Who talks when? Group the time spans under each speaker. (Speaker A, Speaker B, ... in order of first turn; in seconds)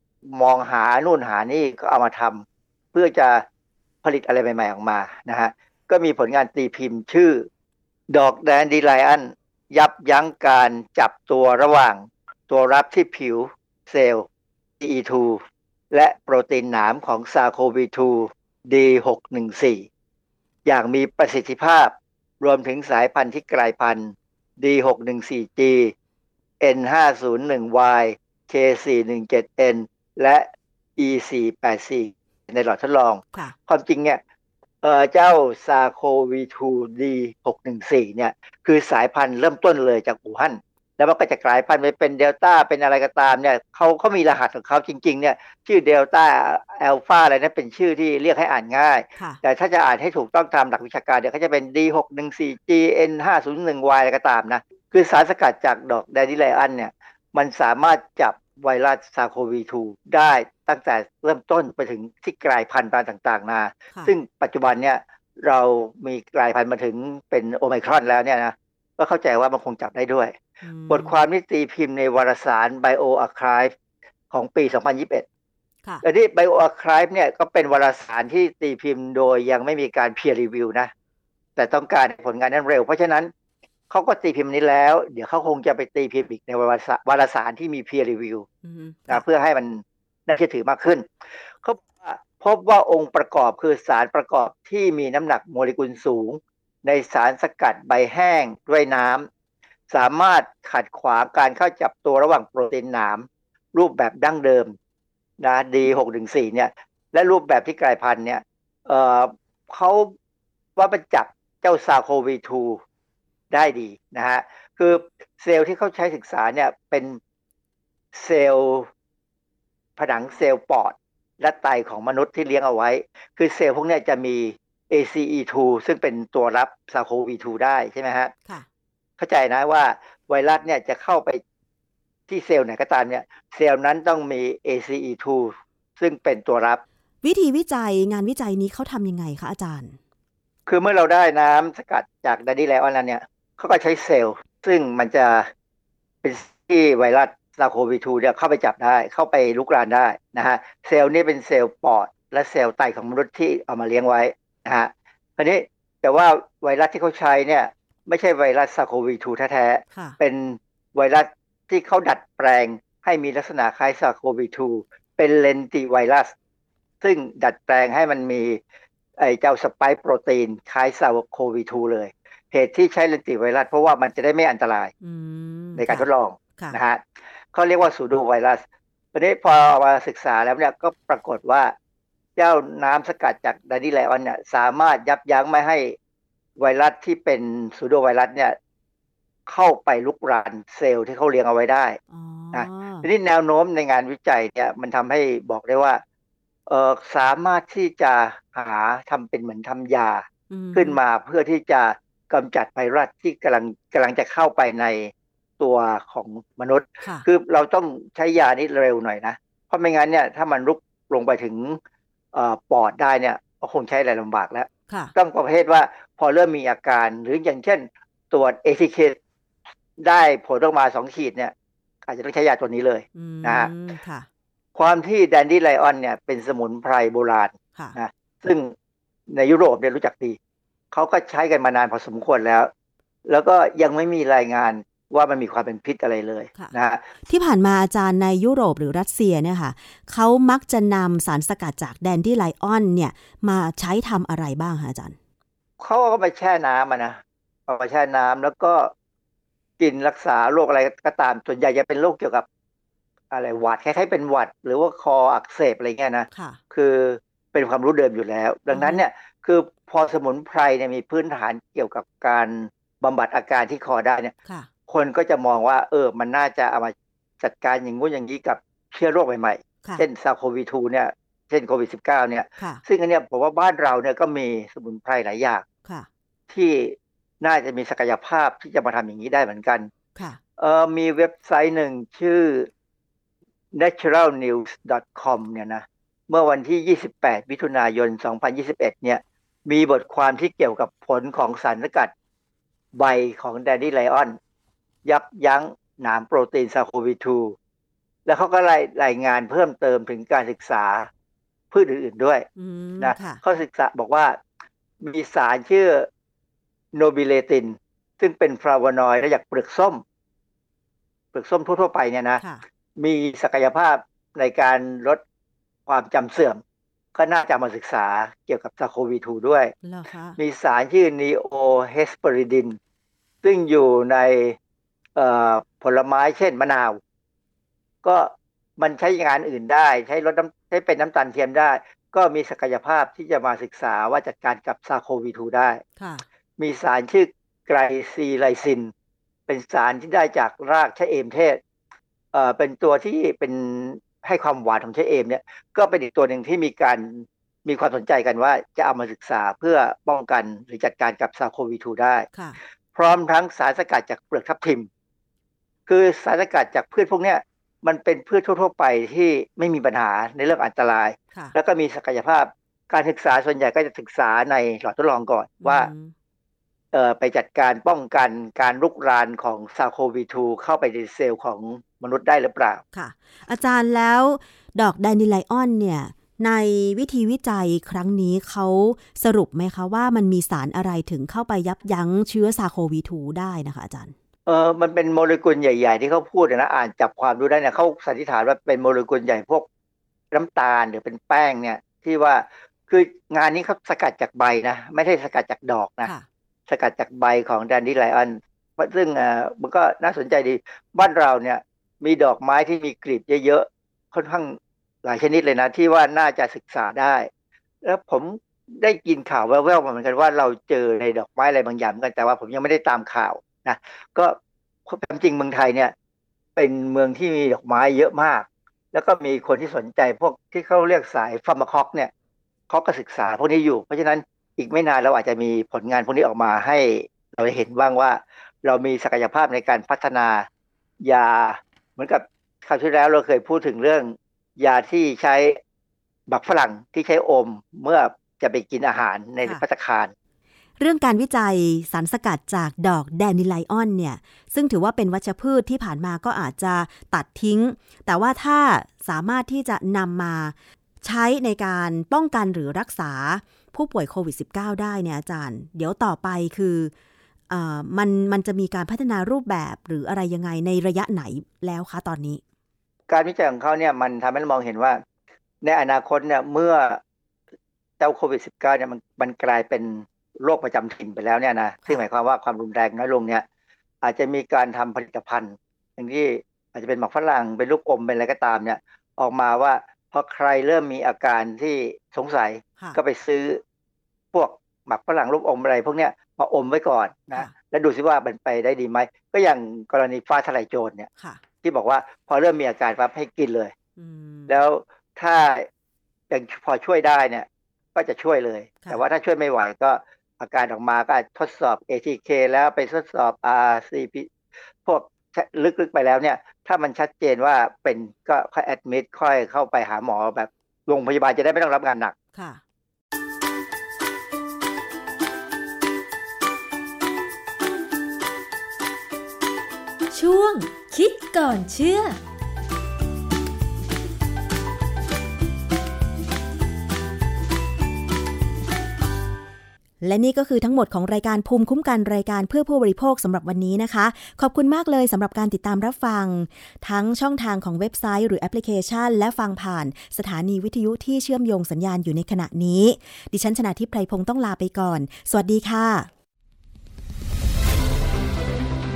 Speaker A: 0.3-3.4, 4.0-7.5, 8.1-14.2, 14.8-19.9, 20.6-25.9, 26.6-34.2, 34.8-70.3, 70.9-73.7, 74.3-75.2, 76.0-80.9, 81.6-83.3, 83.9-88.5, 89.1-91.1, 91.6-99.3, 99.9-104.7, 105.4-110.1, 110.8-112.8, 113.5-117.2, 118.1-118.9, 120.0-128.3, 129.2-131.4, 132.3-136.8, 140.7-145.5, 146.2-166.3, 167.0-168.6, 169.2-174.9, 175.8-181.7, 182.3-185.9, 186.6-188.6, 189.5-192.0, 192.5-196.0, 196.7-211.8, 212.3-219.2, 220.0-221.5, 222.0-223.7, 224.7-228.7, 229.3-230.4, 230.9-232.7, 233.3-237.0, 245.8-248.9, 249.8-252.4, 253.3-264.3, 264.9-275.6, 276.5-279.9, 280.6-282.7, 283.7-292.1, 293.0-294.4, 295.0-297.5, 298.2-301.1, 301.7-302.4, 303.0-304.4, 305.0-306.1, 306.9-310.0, 311.3-312.4, 313.0-315.2, 315.9-316.6, 317.1-319.7, 320.4-322.8, 323.4-324.6, 325.1-327.0, 328.0-335.8, 336.6-338.9, 339.5-341.6, 342.3-352.3, 352.9-354.9, 355.9-365.9, 366.9-372.8, 384.4-389.6, 390.3-396.1, 396.7-407.3, 407.8-414.4, 414.9-415.9, 416.6-422.1, 422.7-430.4, 431.0-435.6, 436.3-440.1, 463.1-465.0, 465.6-467.0, 468.0-473.4, 474.0-483.6, 484.3-491.1, 491.6-493.7, 494.5-495.7, 496.3-504.3, 504.8-512.1
Speaker B: 70.6-71.2, 88.6-89.2, 137.2-140.0, 175.0-176.8, 192.1-193.1, 200.5-201.0, 223.1-224.3, 237.2-245.2, 256.3-256.6, 258.7-259.0, 272.6-272.8, 302.6-303.4, 319.8-320.4, 336.0-336.2, 365.6-366.1, 372.9-384.1, 440.8-456.9, 457.5-462.4, 494.0-494.5, 512.3-512.6, 530.0-546.1
Speaker C: 520.1-522.2